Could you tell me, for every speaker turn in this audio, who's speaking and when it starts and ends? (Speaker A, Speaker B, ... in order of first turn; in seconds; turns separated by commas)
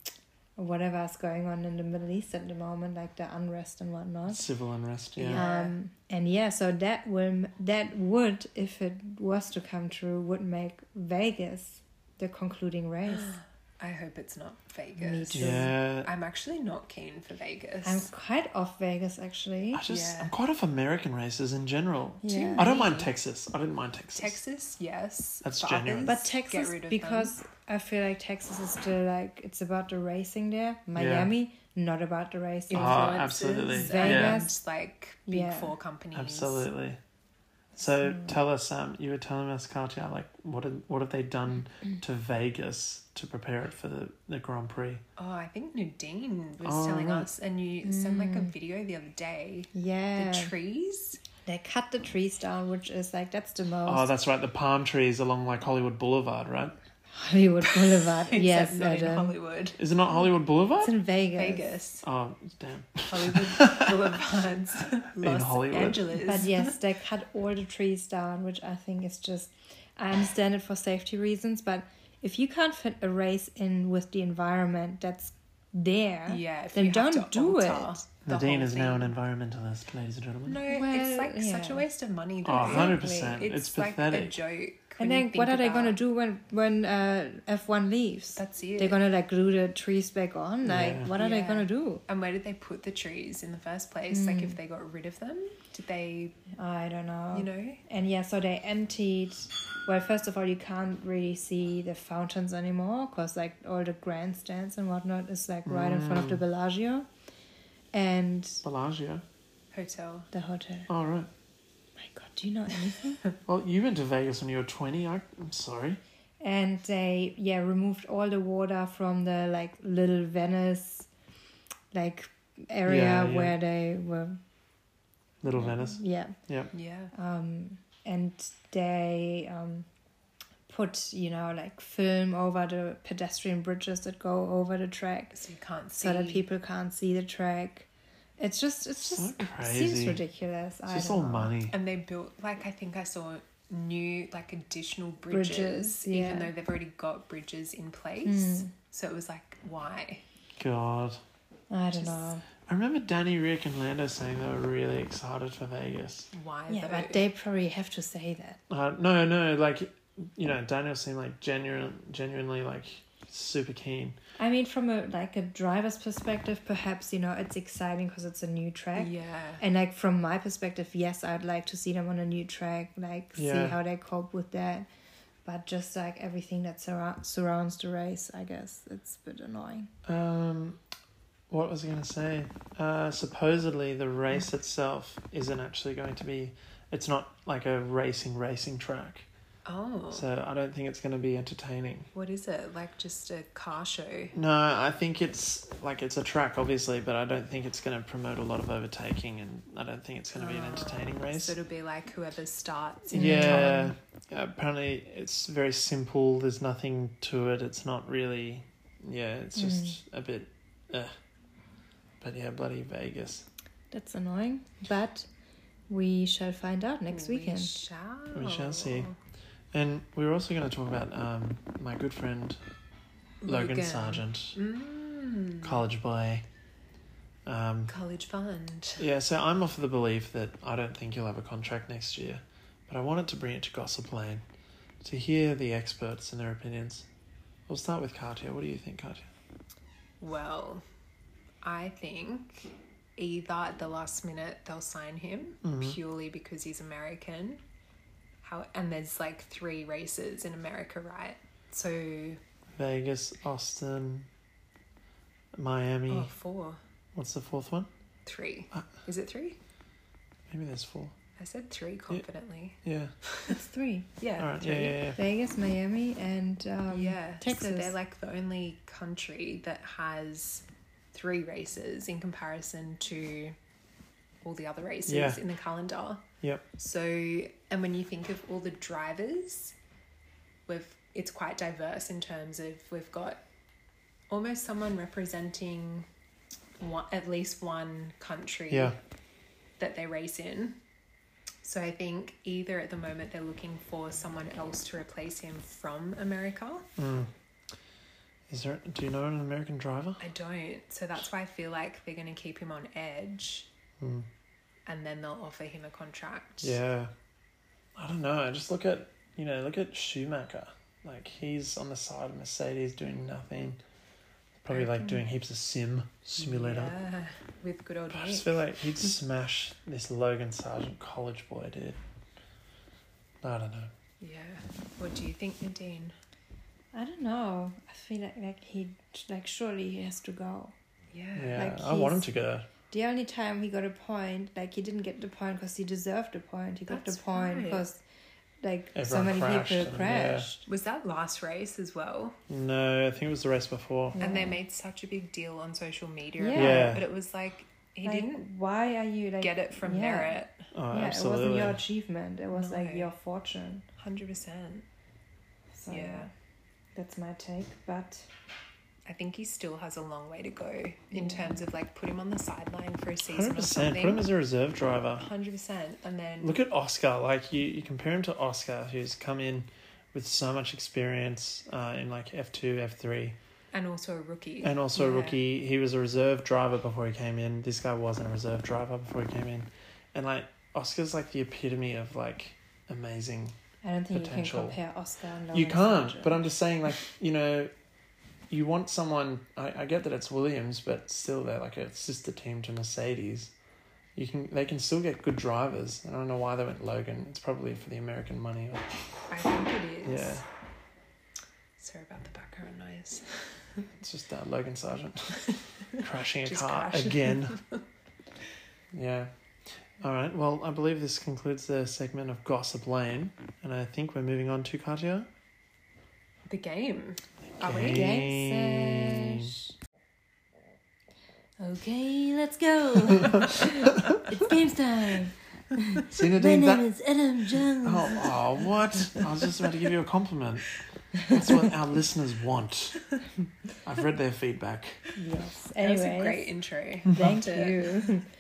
Speaker A: 0.6-4.4, Speaker B: 4.3-5.4, Speaker C: 5.2-5.8, Speaker A: 5.3-13.3, Speaker C: 13.1-18.1, Speaker A: 15.0-15.7, Speaker B: 15.3-16.1, Speaker A: 17.8-19.8, Speaker B: 19.7-24.4, Speaker C: 19.9-20.3, Speaker A: 22.2-22.7, Speaker C: 22.3-23.1, Speaker C: 24.1-27.3, Speaker B: 25.4-26.2, Speaker A: 26.0-34.5, Speaker B: 30.9-31.3, Speaker C: 32.7-36.7, Speaker B: 32.7-34.4, Speaker A: 35.3-35.7, Speaker B: 36.1-37.0, Speaker B: 37.8-45.0, Speaker A: 38.0-38.4, Speaker C: 45.2-51.2, Speaker B: 46.6-47.3, Speaker A: 47.8-48.5, Speaker A: 49.7-50.5, Speaker A: 51.4-54.1, Speaker B: 53.9-56.8, Speaker A: 57.1-59.4, Speaker C: 57.6-59.8, Speaker B: 59.8-61.0, Speaker A: 60.8-61.7, Speaker C: 61.4-62.0, Speaker B: 62.0-64.2, Speaker C: 63.1-66.8, Speaker B: 65.2-66.0, Speaker A: 66.2-78.0, Speaker C: 76.3-79.1, Speaker B: 78.2-80.6, Speaker C: 80.5-86.0, Speaker A: 80.7-81.8, Speaker B: 82.4-84.4, Speaker A: 82.6-83.3, Speaker A: 85.0-92.0, Speaker C: 88.3-89.0, Speaker B: 90.6-91.1, Speaker C: 91.2-96.4, Speaker A: 94.1-94.6, Speaker A: 96.5-107.1, Speaker C: 97.3-97.8, Speaker B: 105.7-106.4, Speaker A: 107.9-108.6, Speaker B: 108.6-109.2, Speaker C: 109.7-110.3, Speaker A: 110.3-110.9, Speaker B: 110.9-111.3, Speaker A: 112.0-113.2, Speaker B: 113.5-116.0, Speaker A: 116.4-121.1, Speaker A: 121.9-124.4, Speaker B: 122.8-123.5, Speaker B: 125.4-126.7, Speaker A: 125.5-126.4, Speaker C: 126.7-127.1, Speaker A: 127.1-129.9, Speaker A: 130.7-135.4, Speaker C: 135.3-136.4, Speaker A: 135.9-137.9, Speaker A: 138.4-141.5, Speaker B: 139.0-140.2, Speaker B: 140.9-141.8, Speaker C: 141.7-150.2, Speaker A: 145.3-146.5, Speaker A: 148.2-148.7, Speaker B: 150.6-151.2, Speaker A: 151.7-152.4, Speaker C: 151.9-152.3, Speaker B: 152.7-156.3, Speaker C: 156.3-157.2, Speaker A: 156.7-158.6, Speaker B: 158.7-164.2, Speaker A: 164.4-174.9, Speaker C: 168.9-169.6, Speaker B: 173.3-173.8, Speaker A: 175.4-179.9, Speaker B: 180.1-180.8, Speaker B: 181.5-189.3, Speaker C: 189.7-190.3, Speaker B: 190.1-192.1, Speaker C: 192.1-194.3, Speaker B: 194.3-201.6, Speaker C: 200.3-203.8, Speaker A: 203.1-203.9, Speaker B: 203.1-211.1, Speaker A: 209.5-210.0, Speaker B: 212.2-213.5, Speaker A: 213.9-215.3, Speaker A: 215.9-217.8, Speaker C: 217.1-219.2, Speaker B: 218.3-219.1, Speaker B: 219.7-222.6, Speaker C: 223.4-225.8, Speaker B: 223.4-224.6, Speaker B: 225.6-226.4, Speaker B: 227.4-227.9, Speaker C: 227.9-229.1, Speaker B: 229.0-234.4, Speaker B: 235.0-237.1, Speaker B: 237.7-239.3, Speaker C: 240.2-240.8, Speaker C: 241.6-247.6, Speaker B: 245.6-246.0, Speaker C: 248.4-252.4, Speaker B: 252.8-254.3, Speaker B: 255.5-256.3, Speaker C: 256.1-256.8, Speaker B: 257.1-257.9, Speaker C: 258.2-259.6, Speaker B: 260.5-261.1, Speaker C: 261.4-262.8, Speaker B: 262.8-263.1, Speaker A: 263.5-264.1, Speaker C: 264.2-265.0, Speaker B: 264.4-265.2, Speaker A: 265.0-267.9, Speaker C: 266.9-273.6, Speaker C: 274.4-276.2, Speaker B: 275.1-275.4, Speaker C: 276.8-279.7, Speaker C: 280.7-283.4, Speaker C: 284.3-286.1, Speaker C: 286.8-289.0, Speaker B: 288.7-288.9, Speaker C: 289.8-290.8, Speaker C: 291.6-296.9, Speaker B: 297.0-297.3, Speaker B: 298.5-300.2, Speaker C: 300.2-303.7, Speaker B: 304.0-304.3, Speaker C: 304.9-306.8, Speaker B: 306.6-307.1, Speaker B: 307.9-313.8, Speaker B: 314.6-316.9, Speaker C: 314.7-315.2, Speaker C: 316.4-318.6, Speaker B: 318.1-322.0, Speaker B: 323.4-323.9, Speaker C: 324.2-326.1, Speaker A: 326.9-330.7, Speaker C: 331.1-331.6, Speaker B: 331.3-332.7, Speaker A: 331.6-332.3, Speaker A: 332.9-338.0, Speaker C: 336.9-337.8, Speaker A: 338.6-340.6, Speaker B: 338.9-340.5, Speaker C: 340.6-342.4, Speaker B: 342.5-344.2, Speaker A: 344.1-344.6, Speaker C: 344.2-348.4, Speaker A: 346.4-347.0, Speaker B: 346.5-347.1, Speaker A: 348.0-353.8, Speaker C: 349.4-350.7, Speaker B: 350.7-351.8, Speaker C: 352.5-353.1, Speaker C: 354.0-354.9, Speaker A: 355.7-356.3, Speaker C: 355.9-356.3, Speaker A: 356.9-358.3, Speaker C: 359.1-364.3, Speaker A: 361.1-361.6, Speaker B: 363.2-365.2, Speaker C: 365.2-366.6, Speaker B: 366.4-373.4, Speaker C: 373.7-375.4, Speaker B: 374.6-383.6, Speaker A: 383.8-386.4, Speaker B: 384.1-384.8, Speaker B: 385.5-387.7, Speaker B: 388.5-393.5, Speaker B: 394.1-398.9, Speaker C: 399.3-400.4, Speaker B: 400.0-400.4, Speaker C: 401.8-403.9, Speaker B: 404.0-407.6, Speaker C: 406.4-407.8, Speaker B: 408.9-415.3, Speaker C: 416.5-418.2, Speaker B: 417.5-419.5, Speaker A: 417.9-419.6, Speaker A: 421.6-428.3, Speaker B: 426.1-426.8, Speaker B: 427.8-430.7, Speaker B: 431.3-433.1, Speaker B: 433.8-435.0, Speaker A: 435.1-436.5, Speaker C: 435.8-438.1, Speaker A: 437.1-438.3